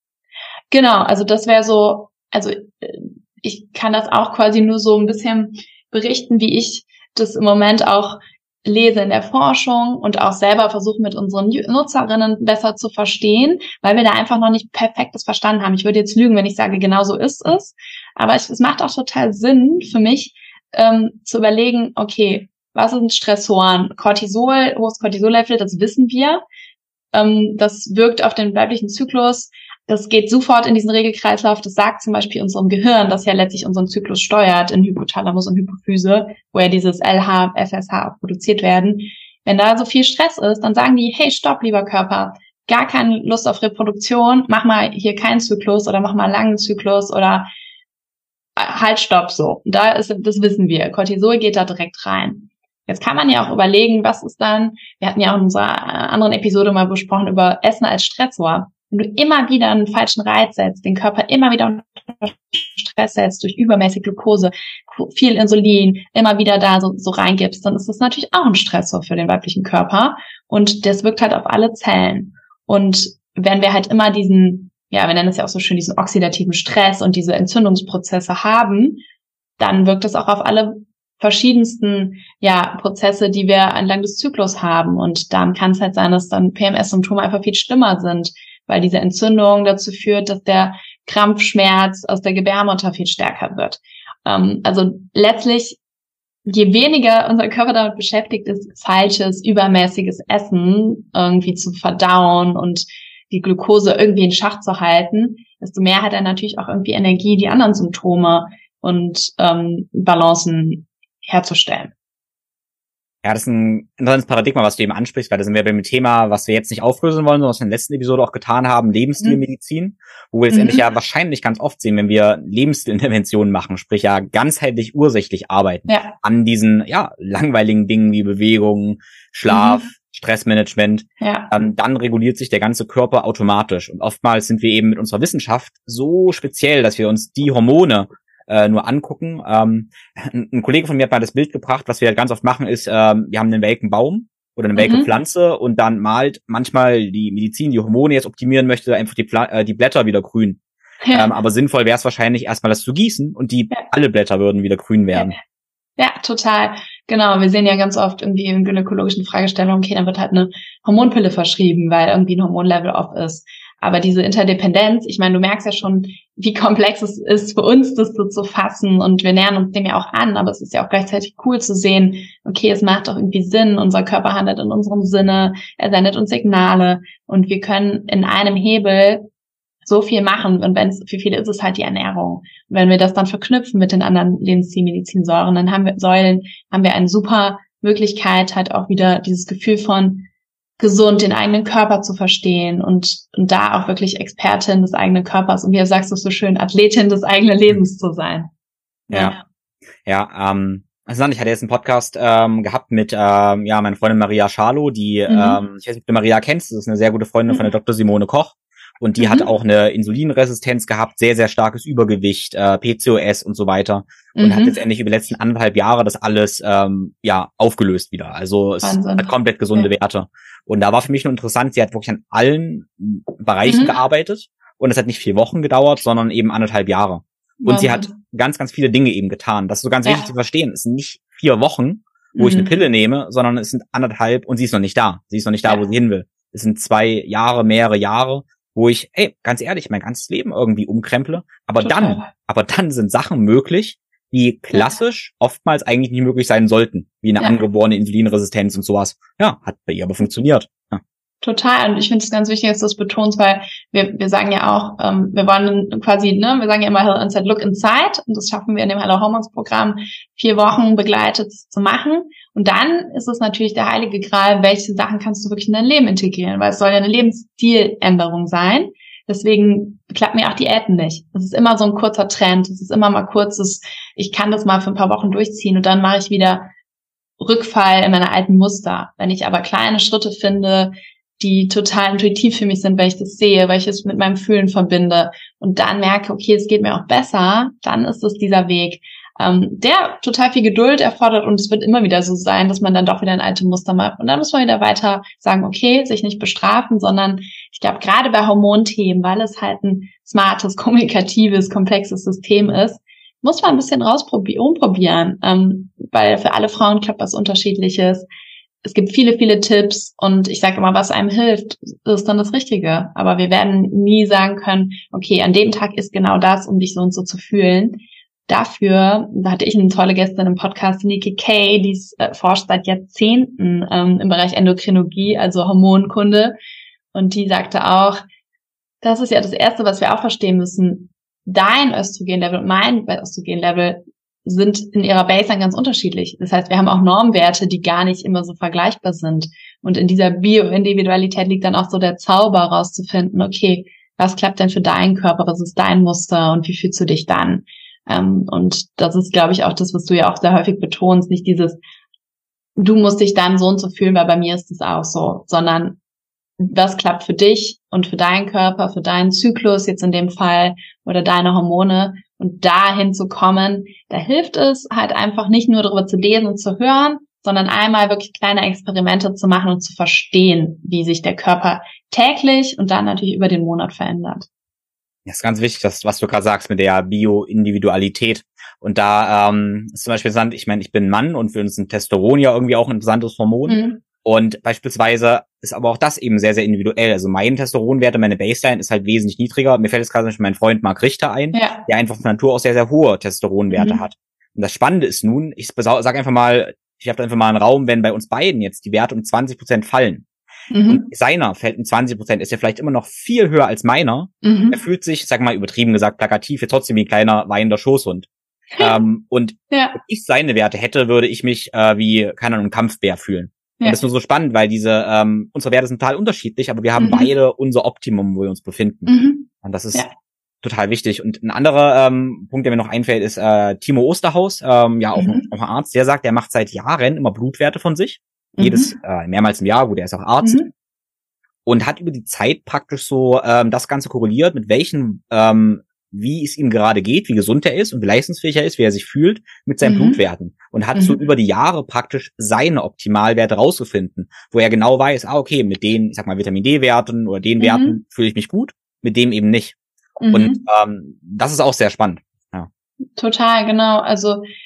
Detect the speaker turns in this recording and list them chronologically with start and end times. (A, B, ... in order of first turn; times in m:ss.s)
0:00.7-0:26.4 A
0:27.1-0:47.5 A
0:48.6-1:19.0 A
1:19.6-1:35.8 A
1:36.5-1:51.9 A
1:53.2-2:30.6 B
2:00.5-2:00.9 A
2:05.9-2:06.2 A
2:09.5-2:09.9 A
2:11.2-2:11.5 A
2:24.8-2:25.1 A
2:31.0-2:31.4 A
2:31.1-2:35.4 B
2:36.0-2:59.2 A
2:59.9-3:10.3 A
3:10.8-3:18.5 A
3:19.1-3:19.4 A
3:19.1-3:19.4 B
3:20.0-4:11.0 B
3:25.3-3:25.6 A
3:29.2-3:29.5 A
3:34.4-3:34.8 A
3:38.8-3:39.9 A
3:43.6-3:44.0 A
3:47.6-3:48.1 A
3:50.0-3:50.3 A
3:52.4-3:52.7 A
4:01.8-4:02.3 A
4:11.4-4:36.7 A
4:37.4-5:08.3 A
5:08.8-5:26.6 A
5:27.1-5:28.2 A
5:29.0-5:51.8 A
5:52.8-5:56.0 A
5:56.6-6:14.5 A
6:15.3-6:40.3 B
6:23.7-6:24.0 A
6:31.5-6:31.9 A
6:33.7-6:34.0 A
6:40.7-6:41.1 A
6:40.9-7:00.1 B
6:44.4-6:44.8 A
6:48.7-6:49.0 A
6:49.7-6:50.0 A
6:57.0-6:57.3 A
6:59.1-7:00.1 A
7:00.6-7:10.6 B
7:05.2-7:05.4 A
7:08.6-7:09.0 A
7:10.4-7:10.7 A
7:11.7-7:29.8 B
7:19.8-7:20.2 A
7:21.0-7:21.2 A
7:27.6-7:28.0 A
7:30.2-7:30.6 A
7:30.3-7:32.7 B
7:33.2-7:34.4 A